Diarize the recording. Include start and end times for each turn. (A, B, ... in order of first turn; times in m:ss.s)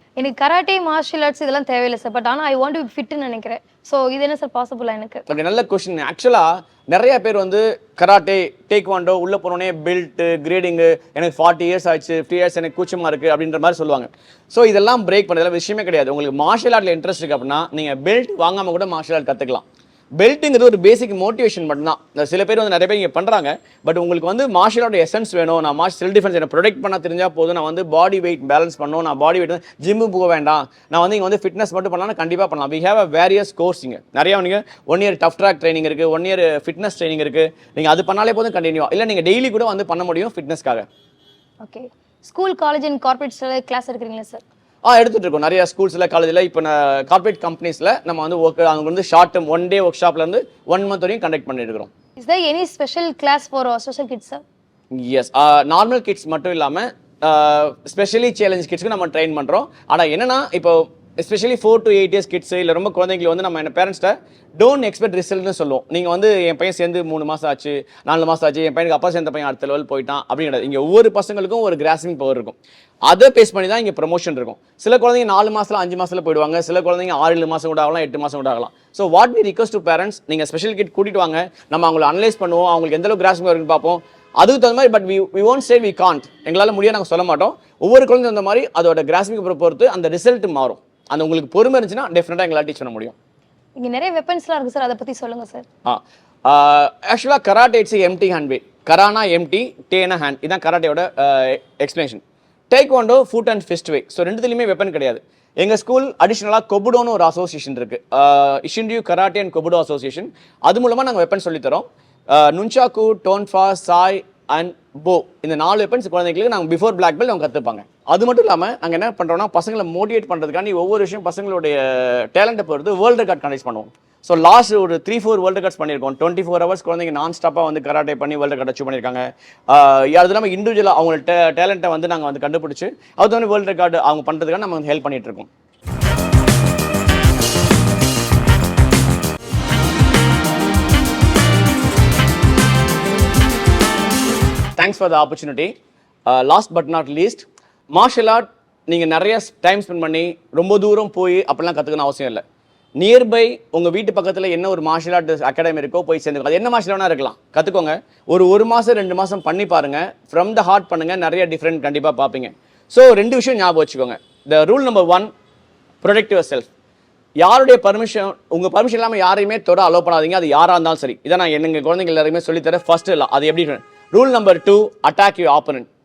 0:00.2-0:05.2 A
0:05.3-0:19.6 B
0:20.2-0:40.9 B
0:41.6-0:44.4 A
0:44.8-0:51.9 B
0:52.2-0:54.4 A
0:54.9-1:33.1 B
1:33.8-1:35.6 A
1:35.8-2:15.5 B
2:24.8-2:25.7 B
2:26.3-2:32.4 B
2:33.0-2:45.3 B
2:46.0-2:46.7 B
2:47.4-2:55.9 B